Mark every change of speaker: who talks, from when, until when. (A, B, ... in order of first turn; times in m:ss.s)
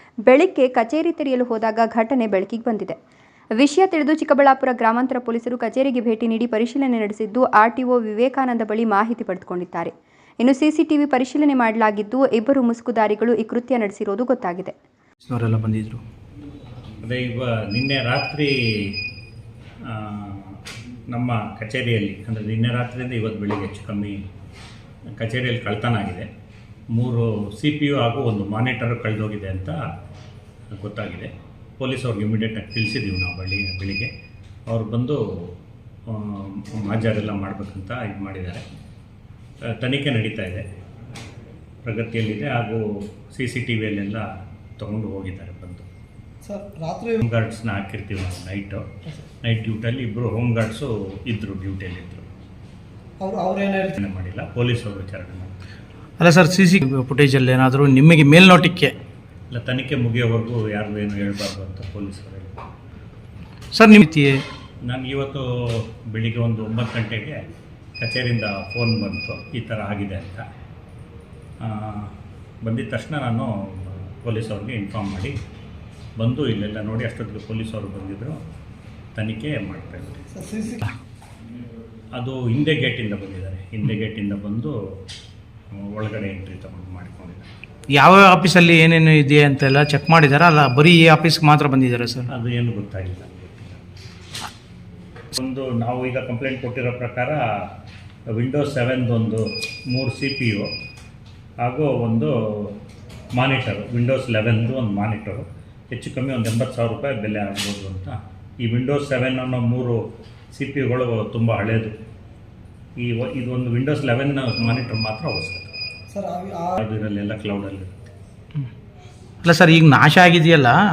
0:00.3-0:03.0 A
0:03.6-0:14.7 A
0:15.2-0:16.0 B
0:17.0-0:19.0 C
0:19.8-0:24.2 C
0:25.2-0:26.3 C
0:26.9-0:29.8 C
0:30.7-0:34.1 C
0:34.7-0:35.5 C
0:36.1-0:38.6 C
0:39.6-0:40.6 C
0:41.8-0:44.3 C
0:44.8-0:45.8 C
0:46.4-0:47.2 D
0:47.2-0:48.8 C
0:49.4-0:52.3 C
0:53.2-0:54.0 D
0:54.0-0:55.5 C
0:56.2-0:58.9 B
0:59.5-1:02.6 C
1:03.7-1:04.4 B
1:04.8-1:07.4 C
1:08.0-1:10.4 C
1:11.6-1:12.1 C
1:12.6-1:15.4 C
1:16.2-1:18.4 C
1:19.2-1:20.2 C
1:20.3-1:20.8 D
1:22.1-1:24.7 C
1:25.7-1:27.4 C
1:28.0-1:32.2 B
1:32.3-1:33.8 C
1:35.3-1:37.4 C
1:38.3-1:40.7 C
1:41.6-1:42.8 C
1:43.4-1:50.0 C
1:50.5-1:51.9 C
1:53.0-1:55.7 C
1:56.1-1:56.8 D
1:56.8-1:58.1 C
1:59.5-2:00.7 B